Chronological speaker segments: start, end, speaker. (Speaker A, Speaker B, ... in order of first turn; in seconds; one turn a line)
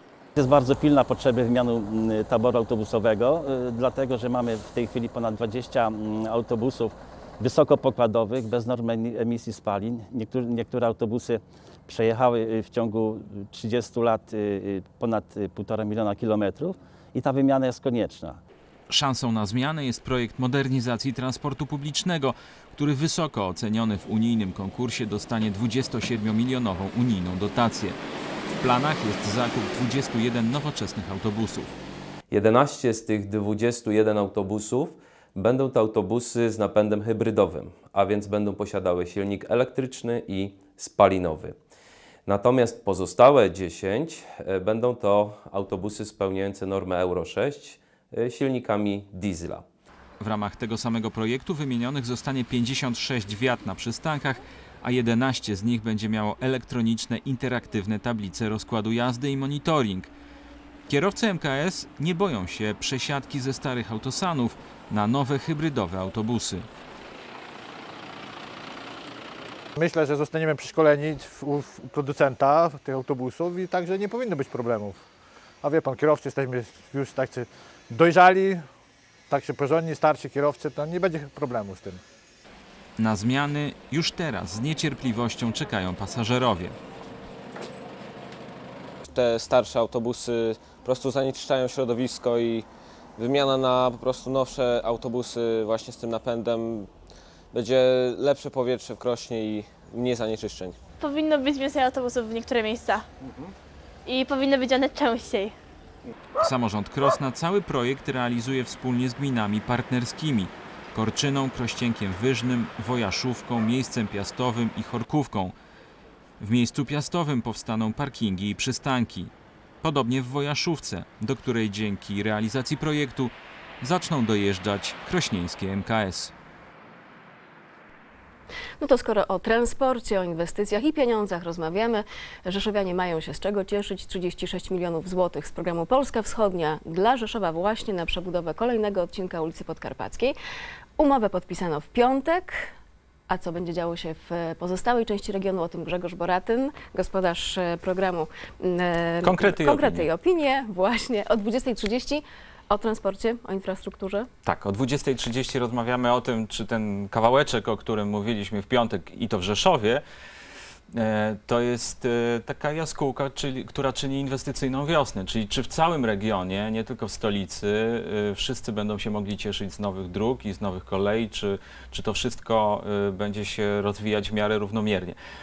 Speaker A: 0.3-18.4
Speaker B: 18.9-28.0
Speaker B: 28.6-31.7
Speaker C: 32.3-41.6
Speaker C: 42.3-49.6
Speaker B: 50.2-60.1
Speaker B: 60.9-66.7
Speaker D: 69.8-75.0
Speaker D: 75.6-78.7
Speaker D: 79.3-82.0
Speaker B: 83.0-86.8
Speaker E: 89.1-92.7
Speaker E: 93.2-96.9
Speaker E: 97.5-100.8
Speaker F: 101.0-103.0
Speaker E: 103.2-103.5
Speaker F: 104.1-105.5
Speaker B: 106.4-115.5
Speaker B: 116.4-119.3
Speaker B: 119.8-126.3
Speaker G: 128.8-140.4
Speaker G: 141.0-142.7
Speaker G: 143.3-154.3
Speaker B: 149.2-150.1
Speaker B: 154.4-160.0
Speaker B: 160.9-175.2